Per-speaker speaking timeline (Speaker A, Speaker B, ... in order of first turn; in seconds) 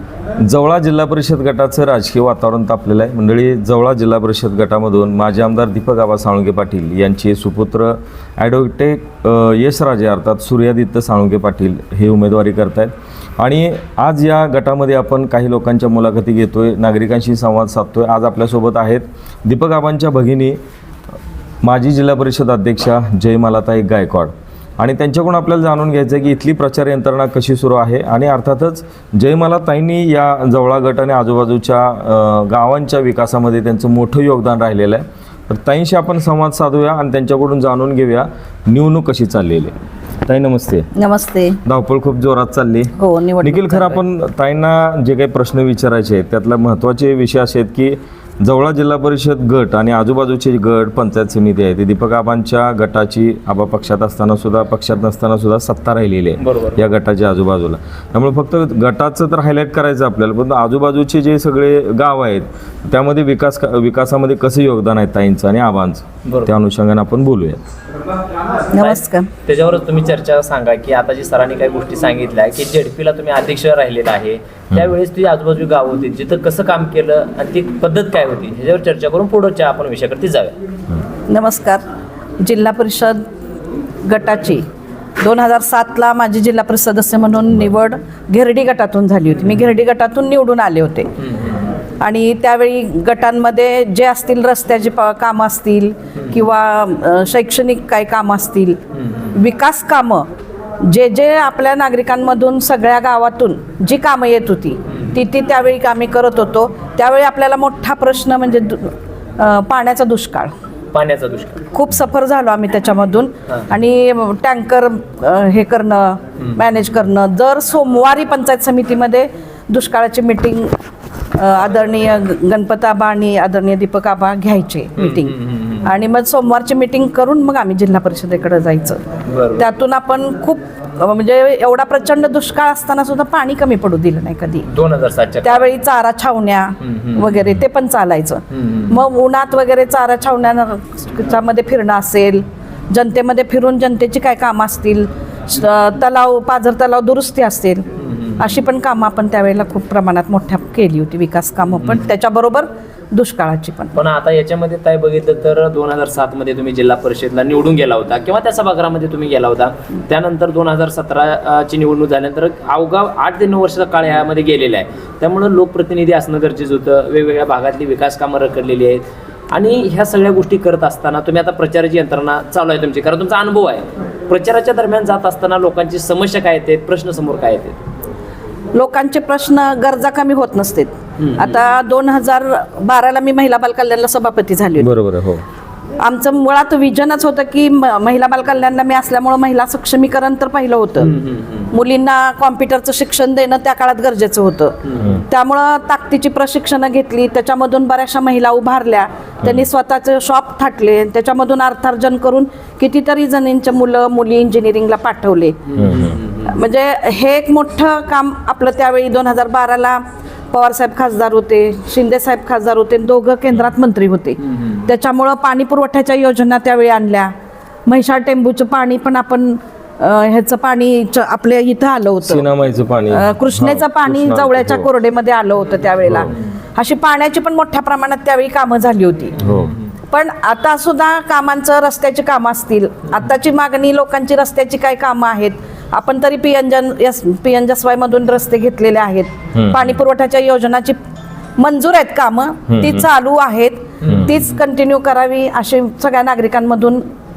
Speaker A: 0.4-20.6, 21.6-39.7, 40.2-40.9, 41.6-67.6, 184.8-185.4, 205.8-206.2, 222.2-224.9, 226.1-226.3, 229.4-229.7, 239.5-240.0, 242.7-243.1
Speaker B: 41.0-41.6, 43.0-44.0, 68.7-69.3, 81.3-81.8, 82.4-83.2, 84.0-84.6, 85.2-91.1, 92.0-98.8, 99.3-100.3, 100.8-110.5, 111.7-120.7, 121.3-125.3, 125.8-129.0, 129.6-134.7, 135.4-147.8, 148.4-154.0, 178.8-184.9, 186.0-191.2, 191.7-205.7, 206.4-210.0, 210.5-217.3, 217.9-222.5, 223.1-229.4, 230.1-240.9, 241.6-247.0
Speaker C: 56.4-56.8, 66.2-66.5, 68.8-80.5, 91.2-91.7, 99.0-99.3, 110.9-111.6, 125.0-125.9, 129.3-129.7, 134.7-135.7, 136.8-137.5, 138.5-139.0, 148.0-148.6, 153.9-177.8, 181.2-181.5, 191.0-191.7, 205.7-206.5, 214.4-214.9, 229.4-229.9, 244.0-244.4